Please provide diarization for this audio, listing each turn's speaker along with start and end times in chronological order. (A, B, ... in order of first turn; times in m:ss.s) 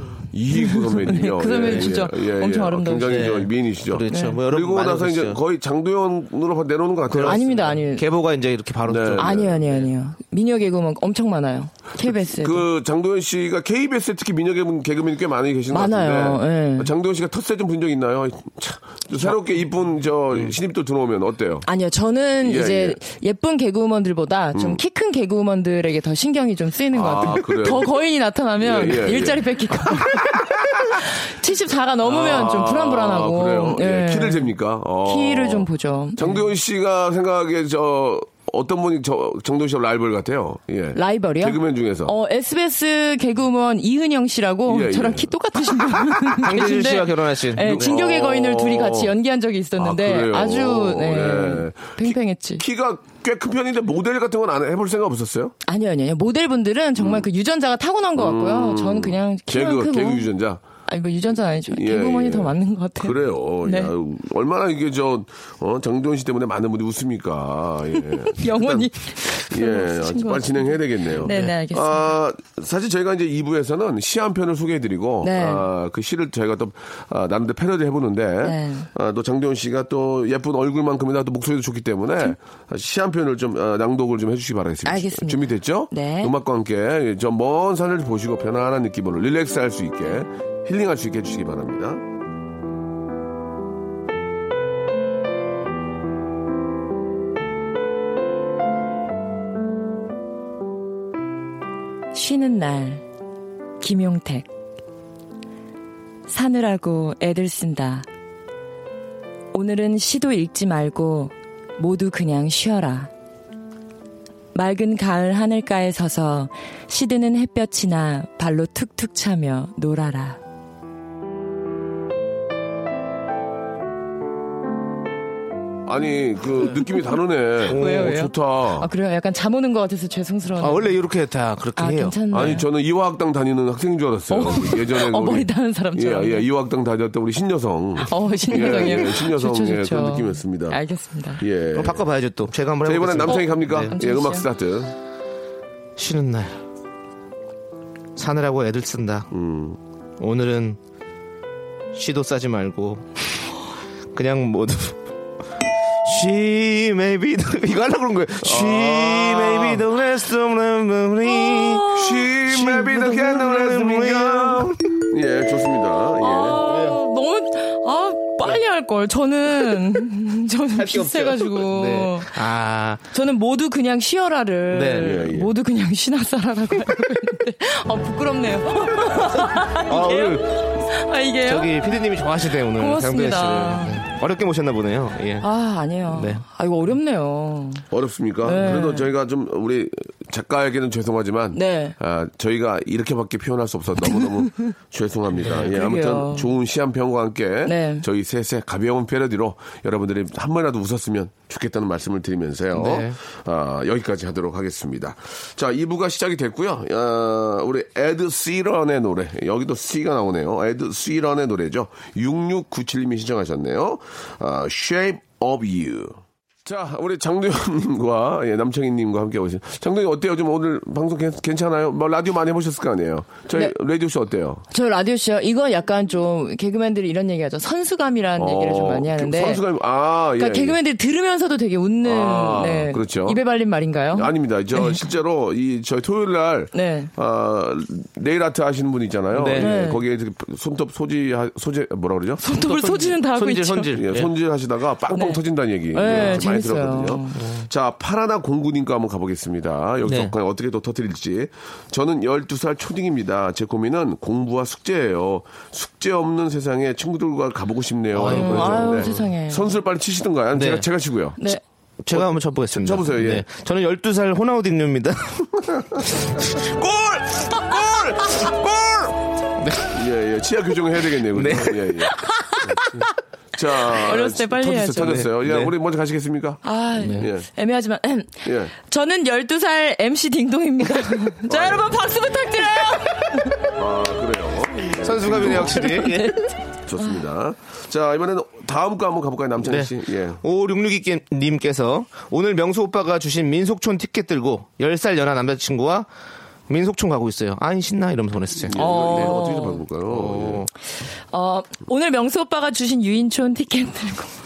0:00.3-0:07.7 A
0:00.5-0:03.3 B
0:01.5-0:01.9 C
0:03.0-0:05.4 C
0:04.1-0:04.4 B
0:07.1-0:09.6 C
0:07.2-0:08.0 B
0:08.8-0:09.8 A
0:09.2-0:12.7 B
0:12.0-0:21.7 A
0:15.7-0:16.9 B
0:21.6-0:34.5 B
0:22.4-0:23.0 A
0:24.5-0:24.8 A
0:26.9-0:27.9 A
0:28.6-0:30.7 A
0:32.0-0:42.1 A
0:35.0-0:36.4 B
0:40.9-0:52.6 B
0:44.7-0:46.4 A
0:46.3-0:47.9 C
0:47.6-0:49.1 A
0:49.8-0:55.5 A
0:55.6-1:00.3 B
0:57.0-0:57.3 A
0:58.2-1:00.6 A
1:00.9-1:03.9 B
1:01.7-1:32.0 A
1:08.1-1:12.1 B
1:11.2-1:11.5 C
1:15.2-1:15.7 B
1:18.4-1:18.9 B
1:24.8-1:26.3 B
1:42.1-1:43.0 B
1:43.8-1:44.5 B
1:46.3-1:48.1 B
1:49.5-1:53.1 B
1:54.5-2:00.4 B
2:05.8-2:08.9 A
2:07.7-2:08.1 C
2:07.7-2:11.0 B
2:10.6-2:12.6 C
2:11.8-2:12.7 B
2:12.3-2:20.8 A
2:14.3-2:16.5 B
2:18.0-2:21.4 B
2:21.4-2:22.1 A
2:21.7-2:23.9 C
2:22.8-2:24.9 A
2:23.2-2:24.4 B
2:26.0-2:26.6 C
2:28.2-2:29.3 C
2:29.3-2:29.8 A
2:30.2-2:30.8 C
2:31.9-2:33.1 C
2:34.1-2:35.0 C
2:36.0-2:44.8 C
2:38.4-2:39.9 A
2:41.3-2:42.3 B
2:41.9-2:46.6 A
2:46.2-2:52.4 B
2:46.6-2:47.0 C
2:50.7-2:53.0 C
2:53.1-3:02.0 B
2:54.7-2:55.2 C
2:55.0-2:55.5 A
2:59.3-3:00.6 C
3:01.4-3:05.5 C
3:02.7-3:04.0 B
3:05.4-3:07.8 B
3:06.1-3:06.4 C
3:07.9-3:44.6 A
3:08.4-3:09.1 B
3:11.5-3:12.0 B
3:15.4-3:15.7 C
3:15.6-3:16.5 B
3:17.6-3:18.0 B
3:22.7-3:23.1 C
3:44.7-3:49.6 B
3:48.4-3:50.8 A
3:50.4-3:55.0 B
3:52.0-3:53.4 A
3:54.1-4:02.4 A
3:56.7-3:57.1 B
3:59.3-3:59.7 C
3:59.6-4:00.0 B
4:02.4-4:04.0 B
4:02.5-4:04.3 C
4:03.9-4:21.4 A
4:05.1-4:05.4 B
4:05.9-4:07.4 B
4:06.1-4:06.4 C
4:07.4-4:07.6 C
4:10.0-4:10.3 C
4:18.1-4:19.2 C
4:18.3-4:19.7 B
4:20.5-4:20.8 C
4:22.0-4:30.0 C
4:22.1-4:23.4 A
4:29.9-4:32.1 A
4:31.1-4:33.0 C
4:32.7-4:33.0 A
4:33.5-4:37.4 A
4:33.8-4:35.3 B
4:34.9-4:35.7 C
4:36.6-4:43.7 B
4:37.0-4:37.3 C
4:38.4-4:38.7 A
4:41.5-4:42.0 A
4:43.7-4:46.1 A
4:44.9-4:46.4 C
4:45.4-4:46.5 B
4:46.8-4:50.4 A
4:49.7-4:56.1 C
4:56.7-4:59.4 C
4:58.6-5:00.6 A
4:58.7-4:59.8 B
5:00.0-5:00.7 C
5:01.3-5:04.3 B